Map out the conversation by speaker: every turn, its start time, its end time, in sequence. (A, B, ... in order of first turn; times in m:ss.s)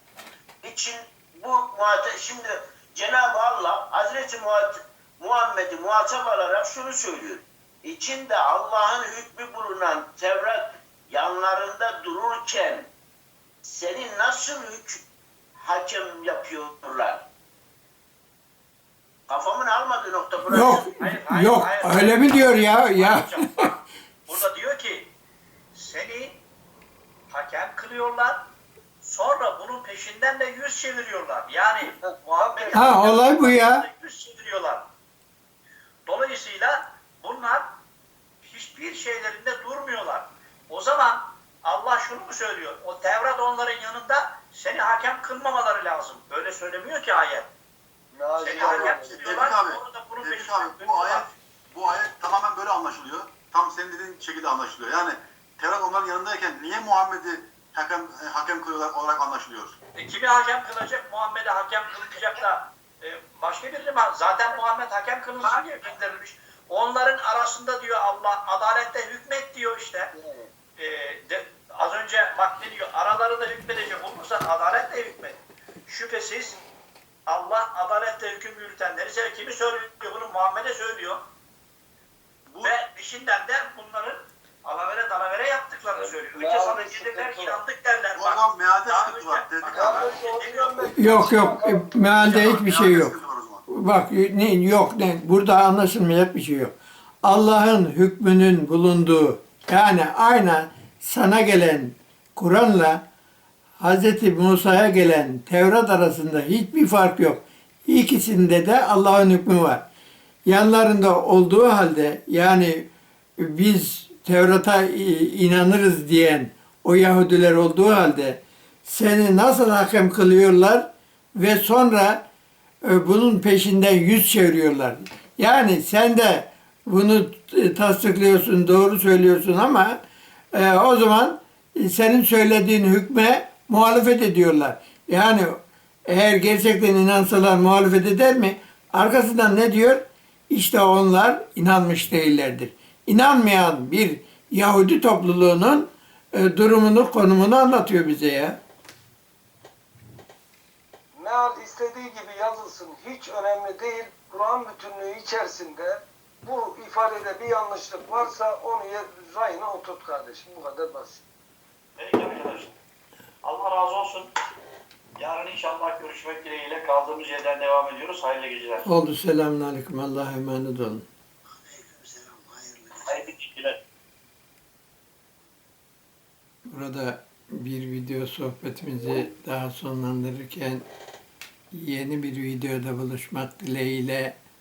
0:00.6-0:12.9 A
0:13.6-0:15.0 A
0:15.5-0:17.2 A
0:19.3-0:20.9 A
0:20.5-0:23.4 B
0:21.0-0:25.1 C
0:25.7-0:26.4 C
0:27.3-0:28.5 C
0:29.0-0:34.9 C
0:32.0-0:32.9 D
0:32.7-0:33.8 B
0:36.0-0:37.8 C
0:38.4-0:47.5 C
0:48.1-0:49.4 D
0:48.4-0:51.3 C
0:48.6-0:59.8 E
1:00.0-1:10.1 C
1:10.1-1:10.5 D
1:10.8-1:16.6 C
1:17.3-1:21.2 C
1:22.6-1:30.9 C
1:26.0-1:27.6 D
1:28.1-1:30.1 E
1:29.6-1:32.2 D
1:31.0-1:33.1 B
1:32.1-1:33.6 E
1:33.7-1:36.7 B
1:37.2-1:43.0 B
1:43.8-1:49.8 B
1:50.4-2:02.2 B
2:02.8-2:10.0 B
2:10.5-2:28.6 B
2:31.1-2:41.2 D
2:42.0-2:42.7 C
2:43.4-2:44.3 C
2:45.2-2:48.9 C
2:48.8-2:51.0 B
2:53.1-2:53.8 C
2:56.7-3:00.8 B
3:01.7-3:04.4 B